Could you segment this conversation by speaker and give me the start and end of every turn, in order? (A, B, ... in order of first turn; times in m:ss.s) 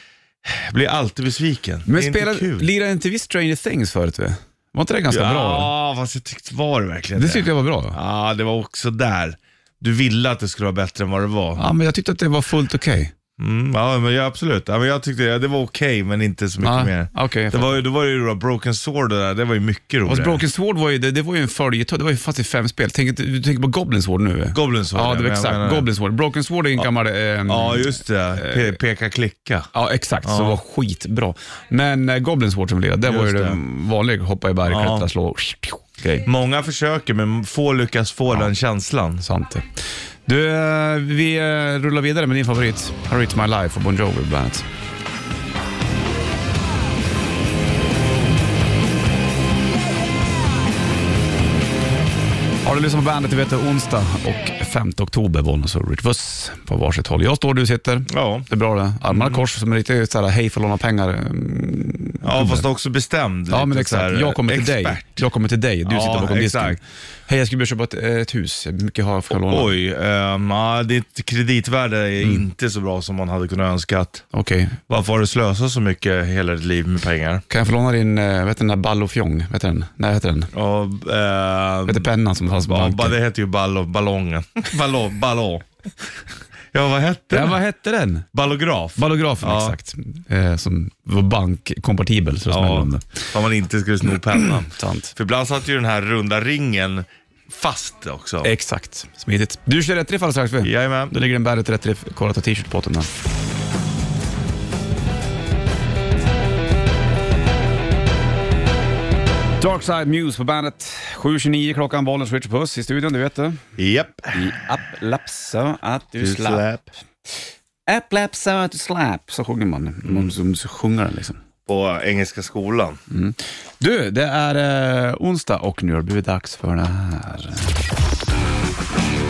0:00.4-0:02.7 A
0:01.9-0:05.7 B
0:05.1-0:11.6 A
0:07.2-0:08.0 B
0:11.6-0:13.1 B
0:13.4-0:20.4 A
0:16.6-0:17.8 B
0:20.0-0:28.7 B
0:24.5-0:25.9 A
0:27.4-0:29.7 A
0:29.7-0:36.3 B
0:30.2-0:30.6 A
0:33.0-0:33.6 A
0:34.6-0:35.1 A
0:36.2-0:39.2 A
0:39.2-0:39.7 B
0:40.2-0:44.6 B
0:52.6-1:02.6 B
0:58.1-0:58.5 A
0:59.1-0:59.4 A
1:02.2-1:05.2 A
1:03.5-1:09.7 B
1:05.8-1:06.8 A
1:09.4-1:14.2 A
1:14.3-1:14.8 B
1:14.9-1:17.4 A
1:17.5-1:20.5 B
1:20.5-1:22.1 A
1:21.9-1:23.2 B
1:22.7-1:25.7 A
1:26.7-1:27.6 A
1:27.3-1:28.2 B
1:28.3-1:29.8 A
1:29.0-1:33.2 B
1:32.5-1:38.5 A
1:34.4-1:35.1 B
1:38.4-1:43.1 B
1:40.6-1:41.1 A
1:49.6-1:53.6 B
1:53.8-1:54.5 A
1:54.3-1:56.6 B
1:56.2-1:56.9 A
1:57.9-2:01.4 B
2:00.0-2:00.3 A
2:01.6-2:03.0 A
2:03.1-2:07.7 B